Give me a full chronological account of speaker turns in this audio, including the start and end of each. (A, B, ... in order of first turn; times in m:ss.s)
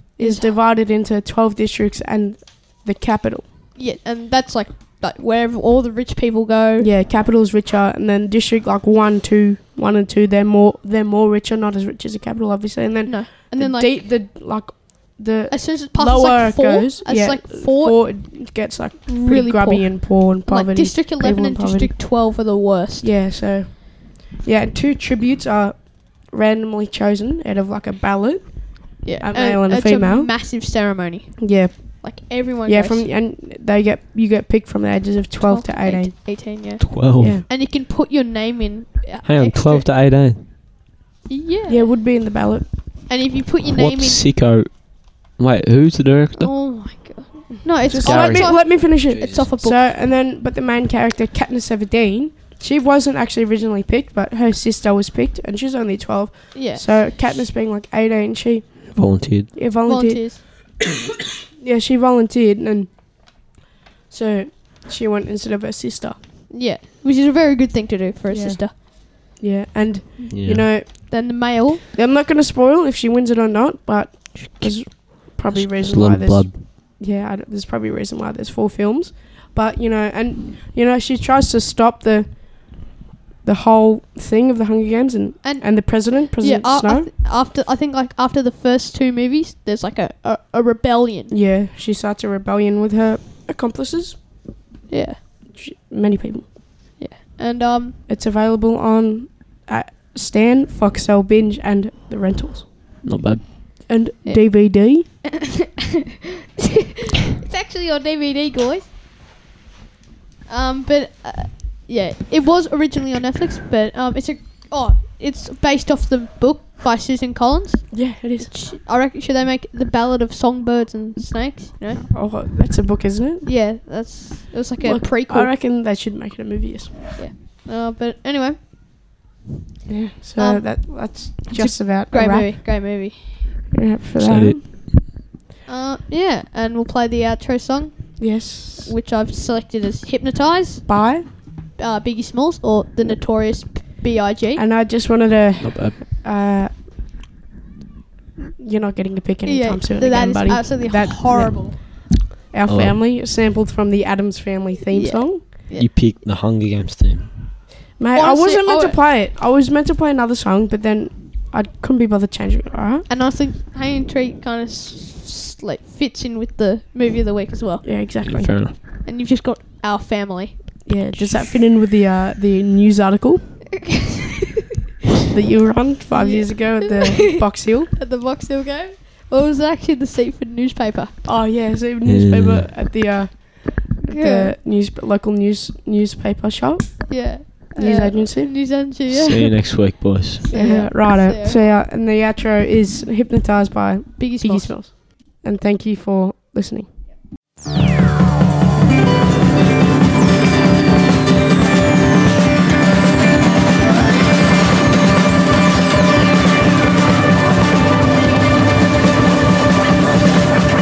0:00.2-0:03.4 A
0:00.2-0:00.5 B
0:03.8-0:06.9 B
0:06.8-0:21.9 A
0:13.0-0:14.1 B
0:15.5-0:18.0 B
0:19.1-0:23.1 B
0:23.0-0:30.3 A
0:29.0-0:33.1 B
0:31.4-0:36.1 A
0:35.4-0:39.9 B
0:36.8-0:37.4 C
0:37.2-0:37.4 A
0:39.2-0:40.4 C
0:41.3-0:41.9 B
0:41.7-0:42.6 A
0:43.1-0:44.2 B
0:43.6-0:46.5 C
0:46.3-0:49.9 B
0:47.9-1:00.4 A
0:48.0-0:49.5 C
0:56.5-0:56.8 B
0:58.9-0:59.5 C
0:59.8-1:00.4 B
1:01.6-1:02.9 A
1:04.1-1:06.2 A
1:06.5-1:08.7 B
1:08.3-1:11.1 A
1:10.3-1:10.7 C
1:11.0-1:11.8 B
1:11.9-1:22.9 A
1:14.5-1:16.6 C
1:23.4-1:27.1 A
1:25.4-1:31.3 B
1:31.3-1:34.2 A
1:34.9-1:35.2 B
1:35.5-1:36.5 A
1:37.0-1:38.0 B
1:38.1-1:42.7 A
1:43.0-1:43.4 C
1:43.9-1:45.0 A
1:44.2-1:44.6 B
1:45.2-1:45.9 B
1:46.6-1:48.8 B
1:50.5-2:02.0 B
1:57.9-1:58.5 A
2:02.0-2:03.5 A
2:03.4-2:05.5 B
2:04.8-2:06.9 A
2:07.2-2:08.6 B
2:09.9-2:12.6 A
2:10.4-2:13.4 B
2:13.7-2:14.6 A
2:14.2-2:14.7 C
2:15.7-2:20.8 B
2:18.2-2:18.9 A
2:20.9-2:21.2 A
2:21.8-2:24.6 B
2:24.5-2:27.1 A
2:25.6-2:25.9 C
2:28.6-2:35.4 A
2:29.4-2:31.8 B
2:32.7-2:33.0 C
2:34.9-2:35.9 B
2:35.8-2:37.3 C
2:38.0-2:43.0 A
2:38.1-2:39.0 B
2:43.1-2:47.8 B
2:47.8-2:48.5 A
2:48.3-2:48.8 C
2:49.0-2:51.3 B
2:50.8-2:53.4 A
2:53.8-2:54.4 B
2:55.3-2:57.9 A
2:56.1-2:57.1 B
2:58.0-3:01.1 B
3:01.2-3:07.1 A
3:02.0-3:02.7 C
3:04.1-3:04.5 B
3:07.1-3:09.6 B
3:07.7-3:08.5 A
3:09.1-3:10.4 C
3:10.4-3:11.6 B
3:10.5-3:16.9 A
3:14.2-3:14.8 B